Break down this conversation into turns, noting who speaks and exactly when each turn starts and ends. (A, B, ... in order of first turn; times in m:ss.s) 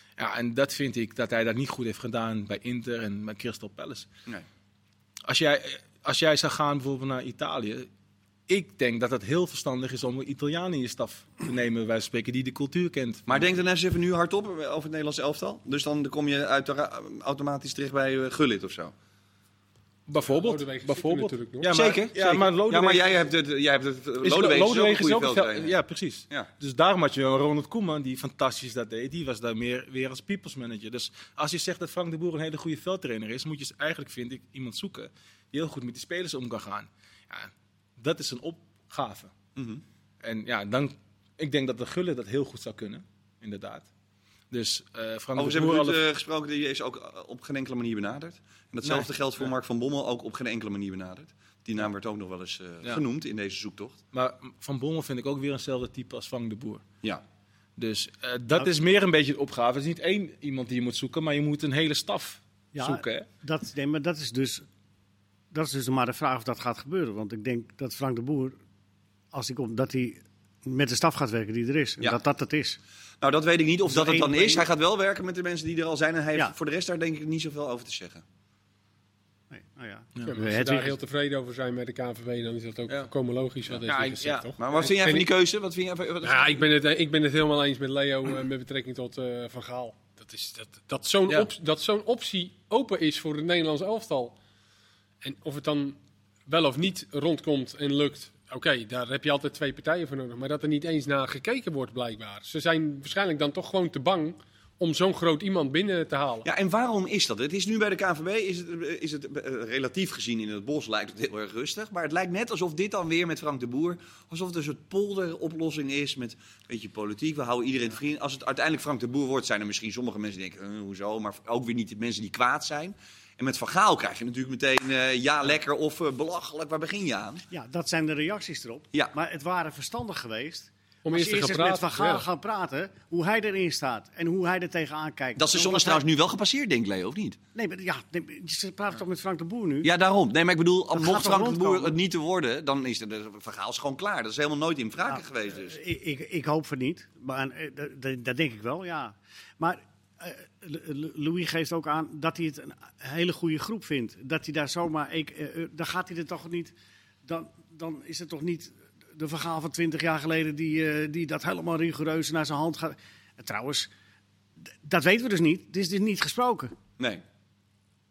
0:00.2-0:04.1 A
0:05.2-0:07.9 A
0:08.5-0:13.2 A
0:13.3-0:18.9 B
0:20.1-0:23.2 A
0:20.3-0:21.7 C
0:21.7-0:25.8 B
0:24.2-0:39.3 A
0:39.6-0:39.8 B
0:40.2-0:43.9 A
0:44.5-0:46.0 A
0:45.4-0:54.0 B
0:48.8-0:49.5 A
0:54.1-0:56.8 A
0:57.8-1:03.3 A
1:02.7-1:04.6 D
1:05.5-1:08.6 D
1:09.3-1:12.8 D
1:13.2-1:18.2 B
1:13.9-1:14.7 D
1:19.5-1:21.0 D
1:20.3-1:25.3 C
1:23.8-1:24.5 A
1:24.6-1:26.6 B
1:26.2-1:34.4 C
1:35.2-1:46.5 C
1:46.4-2:07.4 B
2:07.5-2:16.0 D
2:11.0-2:12.3 C
2:15.4-2:17.4 B
2:17.6-2:19.9 D
2:19.8-2:25.8 B
2:20.9-2:22.0 D
2:25.1-2:43.9 D
2:44.6-2:46.8 D